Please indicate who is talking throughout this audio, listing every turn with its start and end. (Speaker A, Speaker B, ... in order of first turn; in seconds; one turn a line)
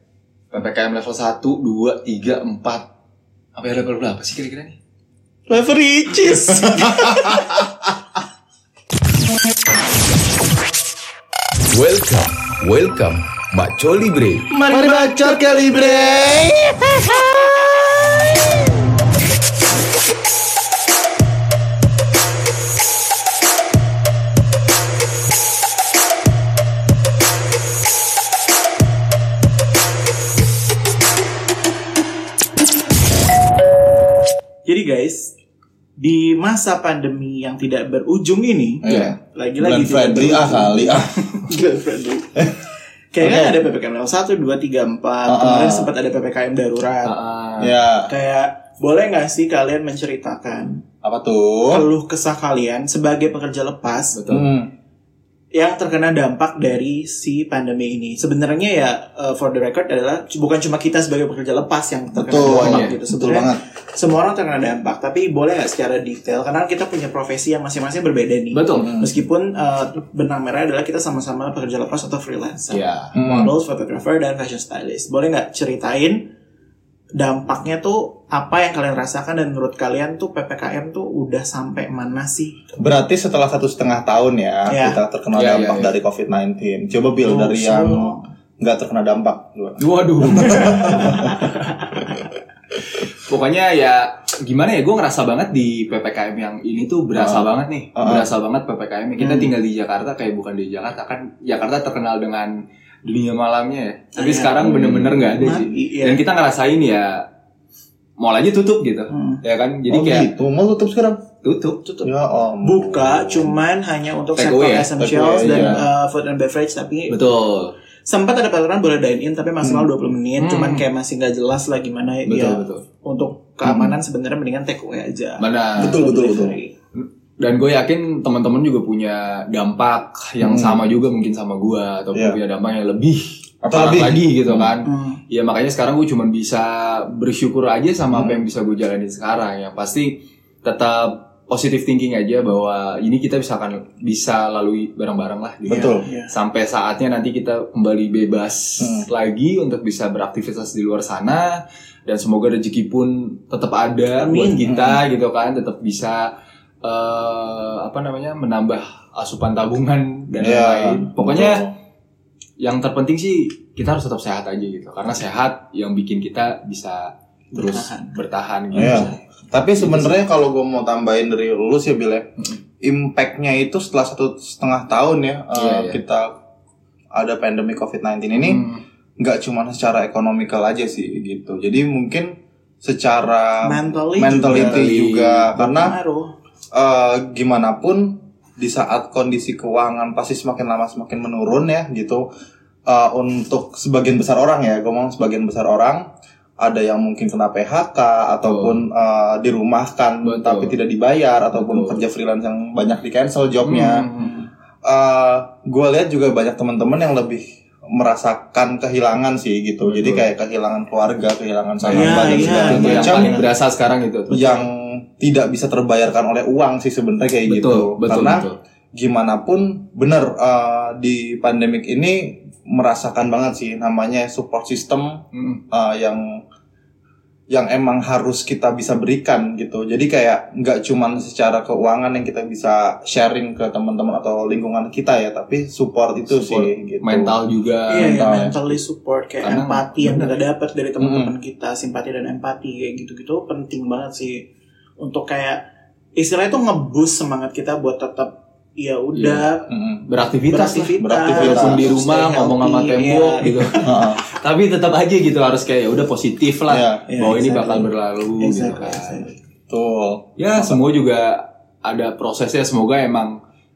Speaker A: 0.5-2.9
Speaker A: 3.5-4.8
Speaker B: 5.5-7.6
Speaker C: 6.8-7.7
Speaker A: 11.7-14.5
Speaker B: 14.5-16.2
Speaker C: 14.6-18.4
Speaker B: 34.6-35.3
Speaker B: 36.0-42.5
Speaker C: 38.8-41.2
Speaker A: 38.9-39.1
Speaker B: 43.1-47.1
Speaker C: 43.2-43.5
Speaker C: 45.3-45.9
Speaker A: 47.0-47.7
Speaker C: 47.6-48.1
Speaker B: 48.1-50.8
Speaker C: 51.0-51.8
Speaker B: 51.7-54.2
Speaker A: 54.1-54.5
Speaker C: 54.3-54.7
Speaker B: 55.5-76.2
Speaker C: 62.1-63.6
Speaker A: 62.6-63.0
Speaker A: 68.5-68.9
Speaker C: 68.8-69.1
Speaker A: 72.7-73.2
Speaker C: 73.2-73.5
Speaker B: 77.1-82.7
Speaker C: 82.8-91.4
Speaker B: 84.7-85.0
Speaker A: 85.3-86.0
Speaker B: 87.2-88.2
Speaker A: 89.8-91.4
Speaker B: 90.9-91.5
Speaker A: 93.2-107.3
Speaker C: 97.2-98.3
Speaker B: 99.2-99.5
Speaker B: 104.2-106.2
Speaker C: 104.6-105.2
Speaker A: 108.2-110.3
Speaker B: 109.1-109.4
Speaker C: 109.9-111.2
Speaker A: 111.4-111.8
Speaker B: 111.8-112.1
Speaker C: 112.0-113.6
Speaker B: 112.6-117.2
Speaker A: 114.4-114.9
Speaker C: 115.0-115.8
Speaker A: 115.4-115.8
Speaker A: 117.1-117.7
Speaker B: 118.1-126.7
Speaker C: 119.6-119.9
Speaker A: 120.4-120.8
Speaker A: 122.3-122.8
Speaker C: 123.6-124.0
Speaker A: 125.4-126.0
Speaker C: 125.8-126.6
Speaker A: 127.0-156.3
Speaker C: 130.4-130.8
Speaker C: 133.6-134.7
Speaker B: 134.8-135.2
Speaker C: 138.1-138.4
Speaker C: 145.7-146.0
Speaker B: 145.7-146.3
Speaker C: 148.8-149.1
Speaker B: 154.2-154.7
Speaker C: 154.7-155.0
Speaker A: 156.8-161.6
Speaker C: 160.4-161.7
Speaker A: 162.6-169.2
Speaker B: 167.6-168.1
Speaker C: 168.7-172.3
Speaker A: 169.8-170.2
Speaker C: 172.8-176.3
Speaker A: 175.5-176.0
Speaker C: 177.1-178.6
Speaker A: 178.4-178.8
Speaker C: 179.2-185.9
Speaker B: 183.6-184.9
Speaker A: 184.5-185.5
Speaker B: 185.5-186.3
Speaker C: 186.7-192.3
Speaker C: 192.9-196.1
Speaker C: 196.6-204.1
Speaker A: 198.5-198.8
Speaker A: 200.2-200.8
Speaker A: 201.5-202.0
Speaker A: 203.6-204.3
Speaker B: 204.2-204.5
Speaker C: 204.8-213.4
Speaker A: 209.8-210.2
Speaker A: 211.8-214.6
Speaker B: 211.9-213.5
Speaker C: 214.3-226.4
Speaker A: 217.5-218.6
Speaker A: 225.3-225.6
Speaker C: 227.5-237.4
Speaker A: 236.3-238.2
Speaker B: 237.9-244.4
Speaker C: 238.0-238.8
Speaker A: 239.4-240.3
Speaker C: 241.0-241.3
Speaker B: 245.0-245.6
Speaker B: 246.2-249.7
Speaker A: 249.1-249.5
Speaker C: 249.7-250.1
Speaker A: 250.1-259.3
Speaker B: 250.5-253.8
Speaker C: 251.0-251.9
Speaker C: 253.8-254.2
Speaker C: 256.7-257.1
Speaker B: 257.1-259.4
Speaker C: 259.7-260.8
Speaker A: 260.4-263.4